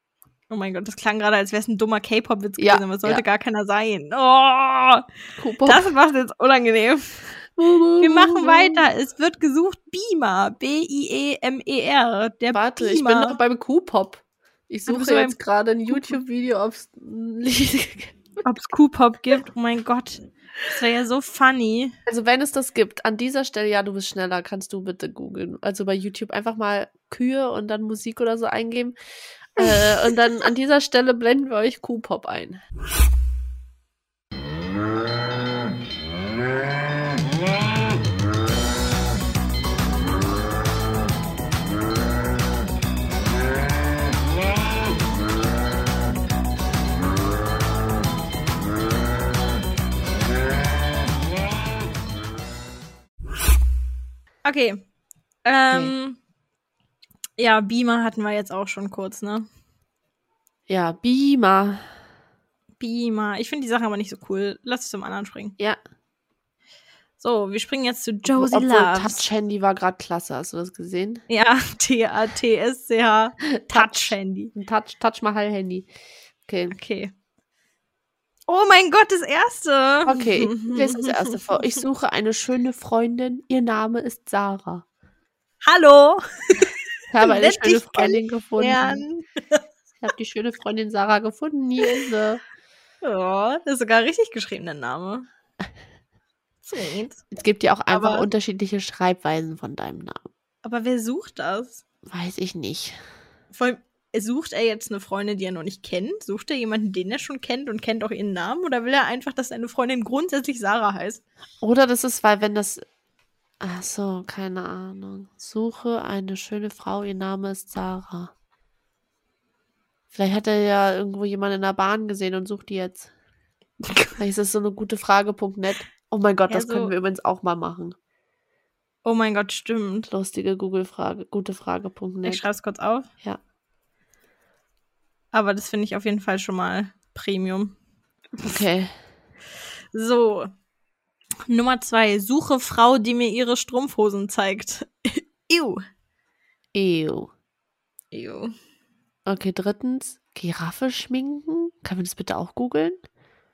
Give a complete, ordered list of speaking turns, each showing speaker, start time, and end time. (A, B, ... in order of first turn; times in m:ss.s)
0:00.5-0:05.0 A
0:02.6-0:03.2 B
0:05.4-0:05.9 B
0:05.6-0:07.2 A
0:07.6-0:08.8 B
0:08.0-0:13.4 A
0:12.5-0:18.4 B
0:14.9-0:15.4 A
0:15.9-0:16.2 A
0:18.4-0:21.9 A
0:22.1-0:29.0 B
0:29.6-0:32.6 B
0:54.4-0:54.8 A
0:55.4-0:56.2 A
0:57.4-0:59.4 A
1:00.7-1:01.9 B
1:02.8-1:05.5 A
1:07.2-1:09.2 A
1:08.2-1:11.2 B
1:11.3-1:14.5 A
1:13.6-1:15.9 B
1:16.4-1:16.7 B
1:16.7-1:17.1 A
1:18.5-1:21.6 A
1:20.0-1:24.8 B
1:25.6-1:29.6 A
1:27.1-1:29.0 B
1:30.0-1:32.4 B
1:33.0-1:35.3 A
1:36.6-1:37.2 A
1:37.3-1:40.3 B
1:37.9-1:38.3 A
1:40.6-1:41.8 A
1:42.0-1:43.0 B
1:43.5-1:51.2 A
1:51.6-1:52.8 B
1:53.6-1:58.3 B
2:00.1-2:03.1 B
2:04.2-2:08.0 B
2:06.5-2:06.9 A
2:09.0-2:10.1 A
2:10.1-2:12.4 B
2:12.2-2:13.1 A
2:15.3-2:17.7 A
2:18.4-2:18.9 B
2:19.9-2:20.5 A
2:21.5-2:25.8 A
2:26.7-2:27.3 B
2:28.1-2:28.5 A
2:29.2-2:33.0 B